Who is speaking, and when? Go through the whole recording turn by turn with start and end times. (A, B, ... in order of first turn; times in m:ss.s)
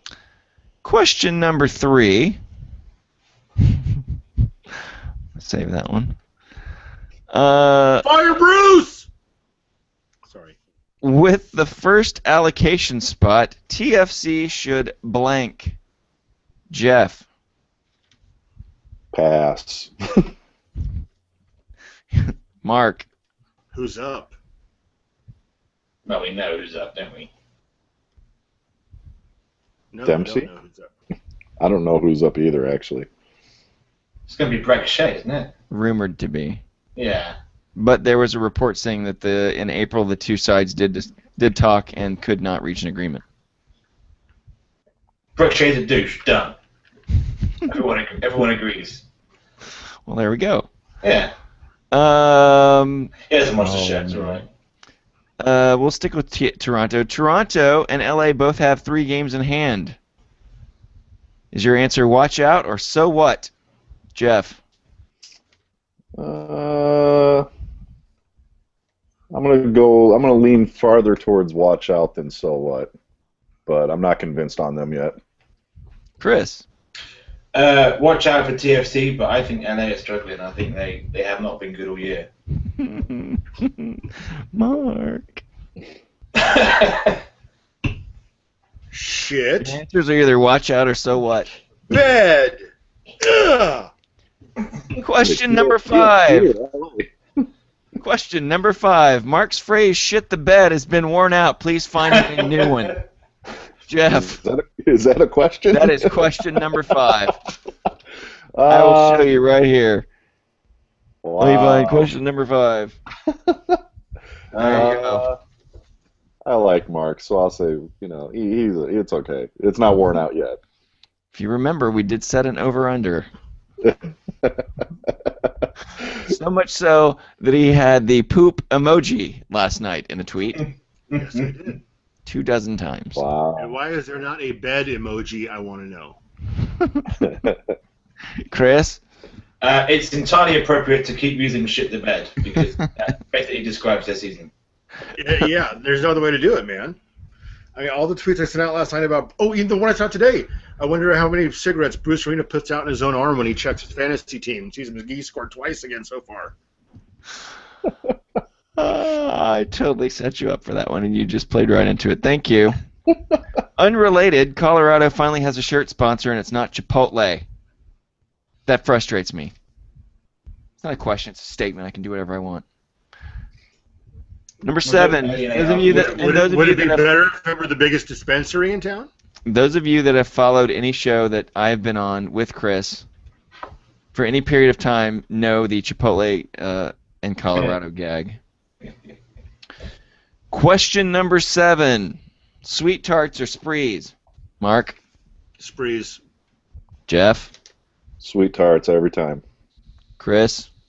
0:00.8-0:02.4 A
0:05.3-0:06.2 A
0:07.3-0:08.1 A
0:08.0-0:09.1 B
0:10.3-0:10.6 B
0:11.0-0:15.8 A
0:16.7-0:17.2 A
0:19.1-0:20.3 C
0:22.1-0:23.1 A
0:23.7-0:24.3 B
0:26.0-0:27.3 D
0:29.9-0:30.9 B
0:30.0-0:30.5 C
0:31.6-0:33.1 C
0:34.3-0:35.5 D
0:35.7-0:36.6 A
0:37.0-0:37.4 D
0:37.8-0:43.2 A
0:45.4-0:46.5 D
0:47.6-0:49.0 D
0:50.0-0:50.7 A
0:51.0-0:51.3 D
0:51.9-0:54.4 A
0:53.3-0:54.4 D
0:55.4-1:00.0 A
1:01.5-1:03.5 A
1:04.1-1:04.6 A
1:06.2-1:07.5 C
1:09.3-1:12.9 C
1:13.6-1:15.2 C
1:16.2-1:16.6 A
1:17.5-1:22.3 D
1:22.7-1:25.4 A
1:26.3-1:27.2 D
1:28.9-1:29.8 B
1:29.6-1:31.5 A
1:31.9-1:32.6 B
1:33.2-1:33.9 B
1:35.0-1:36.5 A
1:35.2-1:37.4 C
1:38.0-1:43.0 A
1:42.2-1:42.7 D
1:43.9-1:44.4 A
1:44.1-1:47.1 C
1:45.7-1:47.4 A
1:48.5-1:49.4 C
1:48.7-1:50.1 A
1:51.2-1:52.1 C
1:51.4-1:53.0 A
1:53.3-1:53.8 C
1:54.5-1:54.9 D
1:54.6-1:55.2 A
1:54.6-1:55.4 C
1:56.4-2:00.6 C
2:01.3-2:03.3 A
2:03.8-2:05.7 C
2:06.2-2:10.6 A
2:11.1-2:11.5 D
2:11.1-2:11.8 B
2:12.2-2:13.2 A
2:13.1-2:13.7 C
2:13.6-2:16.2 B
2:16.8-2:17.0 A
2:17.1-2:17.7 C
2:18.5-2:19.0 A
2:19.6-2:24.5 D
2:25.1-2:27.0 B
2:27.7-2:36.5 B
2:38.8-2:42.8 A
2:43.8-2:47.4 A
2:48.6-2:49.5 A
2:50.8-2:52.6 A
2:54.6-2:57.1 A
2:54.8-2:56.3 D
2:55.8-2:59.1 B
2:59.4-3:03.0 A
3:04.1-3:08.4 A
3:10.5-3:15.0 A
3:15.6-3:16.2 B
3:17.1-3:17.5 A
3:18.2-3:19.4 C
3:20.2-3:20.7 A